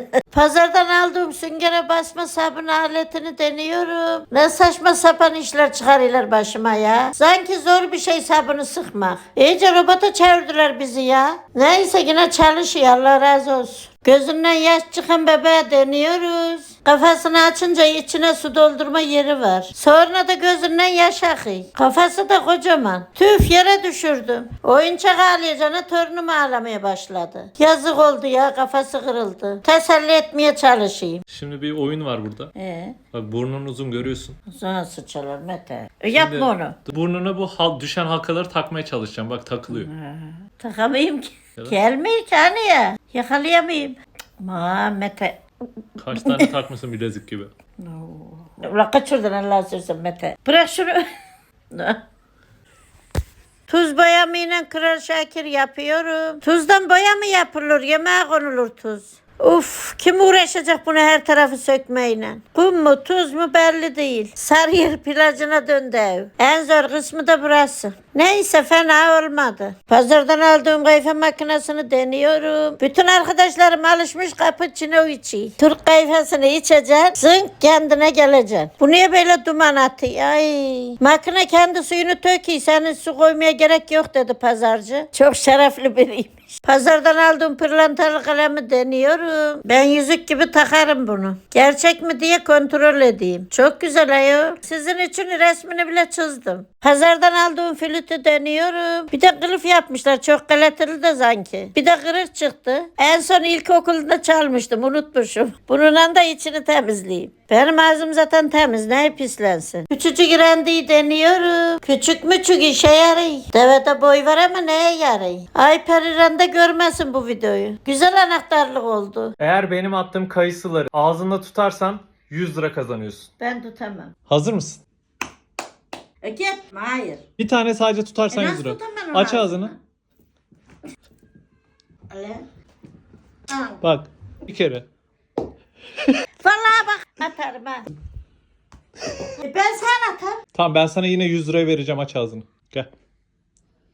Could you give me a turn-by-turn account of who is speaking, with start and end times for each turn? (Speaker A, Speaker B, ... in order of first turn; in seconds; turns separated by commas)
Speaker A: 0.3-31.2, Speaker B: 31.3-32.5, Speaker A: 32.5-33.0, Speaker B: 33.1-34.4, Speaker A: 34.5-36.8, Speaker B: 36.2-39.9, Speaker A: 39.7-45.4, Speaker B: 46.0-47.5, Speaker A: 46.1-46.5, Speaker A: 47.8-51.0, Speaker A: 51.7-52.0, Speaker A: 53.7-119.3, Speaker B: 119.4-123.3, Speaker A: 123.4-124.1, Speaker B: 124.3-124.8, Speaker A: 126.2-127.2, Speaker B: 127.4-129.7, Speaker A: 128.3-129.8, Speaker A: 132.1-132.4, Speaker A: 133.5-133.8, Speaker B: 133.8-134.9, Speaker A: 136.4-137.9, Speaker A: 139.4-140.4, Speaker B: 140.6-142.9